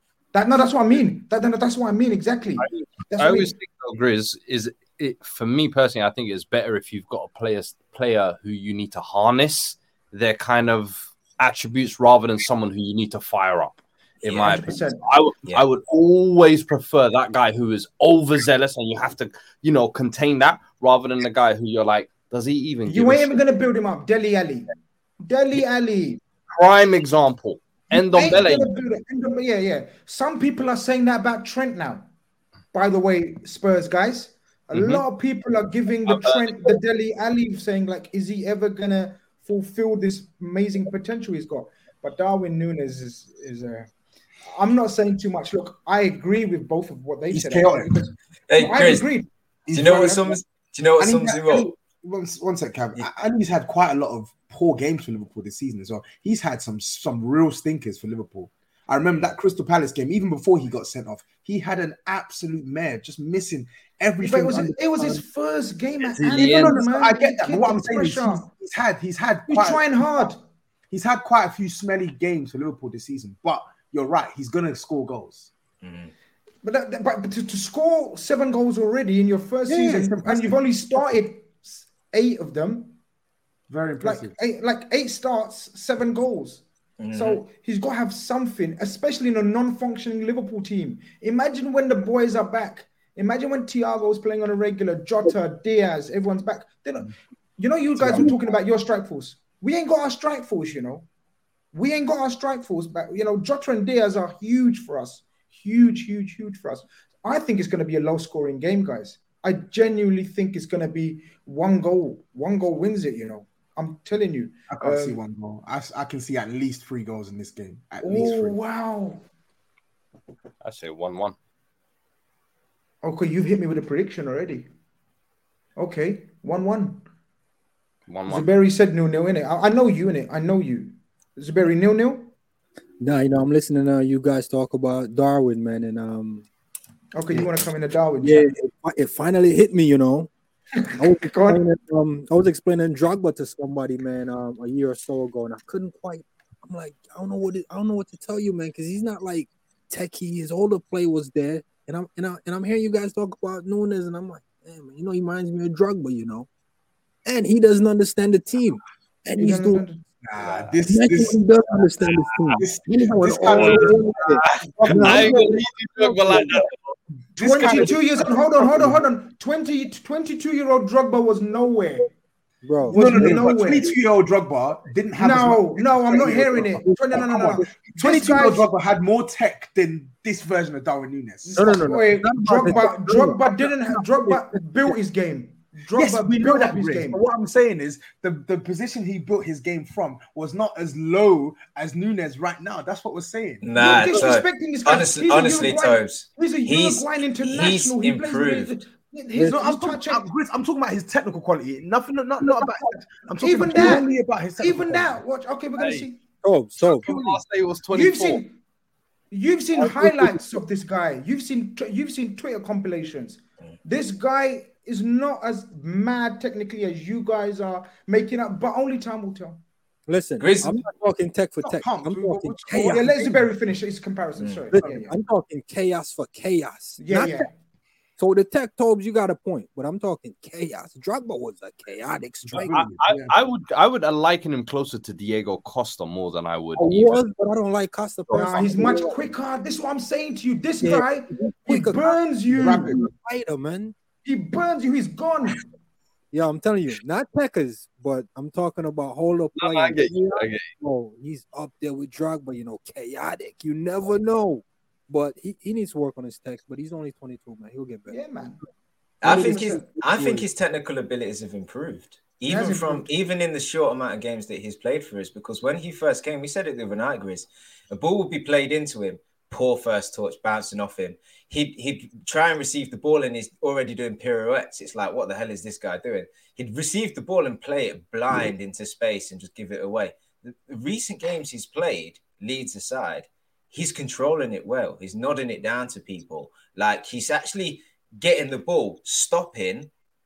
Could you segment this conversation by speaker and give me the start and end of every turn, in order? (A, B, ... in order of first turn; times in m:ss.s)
0:00.3-0:03.6 A
0:02.6-0:23.3 B
0:14.3-0:14.5 C
0:14.4-0:15.0 A
0:22.8-0:26.2 A
0:26.6-0:28.8 B
0:27.9-0:32.1 A
0:32.7-0:43.9 A
0:34.7-0:35.0 B
0:36.1-0:36.8 B
0:44.5-0:49.3 A
0:47.3-0:47.9 D
0:48.5-0:49.1 C
0:49.7-0:50.4 D
0:49.7-0:51.7 C
0:51.0-1:05.2 D
1:04.2-1:08.5 A
1:06.1-1:06.8 B
1:06.3-1:10.3 D
1:09.5-1:10.4 A
1:10.9-1:15.5 D
1:15.8-1:16.1 C
1:16.6-1:23.0 A
1:19.7-1:20.6 D
1:23.7-1:24.4 D
1:24.0-1:41.1 A
1:27.0-1:27.4 C
1:38.0-1:38.3 D
1:41.7-1:55.2 A
1:54.7-1:58.6 D
1:58.0-1:59.2 A
2:00.6-2:01.4 B
2:03.0-2:04.7 A
2:05.8-2:07.0 A
2:08.1-2:08.5 B
2:08.3-2:12.3 A
2:13.0-2:16.5 E
2:17.2-2:18.5 A
2:18.2-2:20.3 E
2:20.8-2:21.6 A
2:21.0-2:36.5 E
2:37.3-2:39.8 E
2:39.4-2:40.0 A
2:40.2-2:41.8 D
2:40.8-2:46.6 E
2:42.6-2:45.5 D
2:43.6-2:43.9 B
2:45.0-2:46.9 B
2:47.4-2:49.0 D
2:47.4-2:52.1 A
2:52.6-2:53.5 E
2:52.9-3:02.9 D
2:52.9-2:53.9 A
2:55.2-2:58.7 A
2:56.6-2:57.7 E
3:01.5-3:07.2 A
3:01.5-3:04.6 E
3:06.0-3:14.3 D
3:13.6-3:18.7 C
3:13.8-3:20.3 A
3:19.4-3:25.2 D
3:22.4-3:24.1 A
3:24.6-3:26.2 A
3:25.8-3:26.1 B
3:26.4-3:27.1 E
3:26.9-3:27.4 D
3:26.9-3:28.4 B
3:27.9-3:28.6 A
3:29.3-3:39.6 A
3:29.8-3:30.5 E
3:40.1-3:43.4 E
3:40.4-3:40.9 C
3:41.6-3:43.4 D
3:42.7-3:45.2 A
3:44.4-3:44.6 C
3:44.7-3:47.5 E
3:47.0-3:47.5 A
3:48.2-3:52.8 E
3:52.4-3:53.3 D
3:52.7-3:57.2 B
3:56.8-3:59.3 E
3:58.3-4:02.9 A
4:00.8-4:04.0 E
4:02.6-4:03.1 D
4:04.2-4:05.6 A
4:06.3-4:18.2 E
4:09.6-4:10.7 B
4:18.1-4:18.6 A
4:19.2-4:49.9 C
4:19.2-4:20.5 E
4:19.2-4:19.8 A
4:22.5-4:23.1 A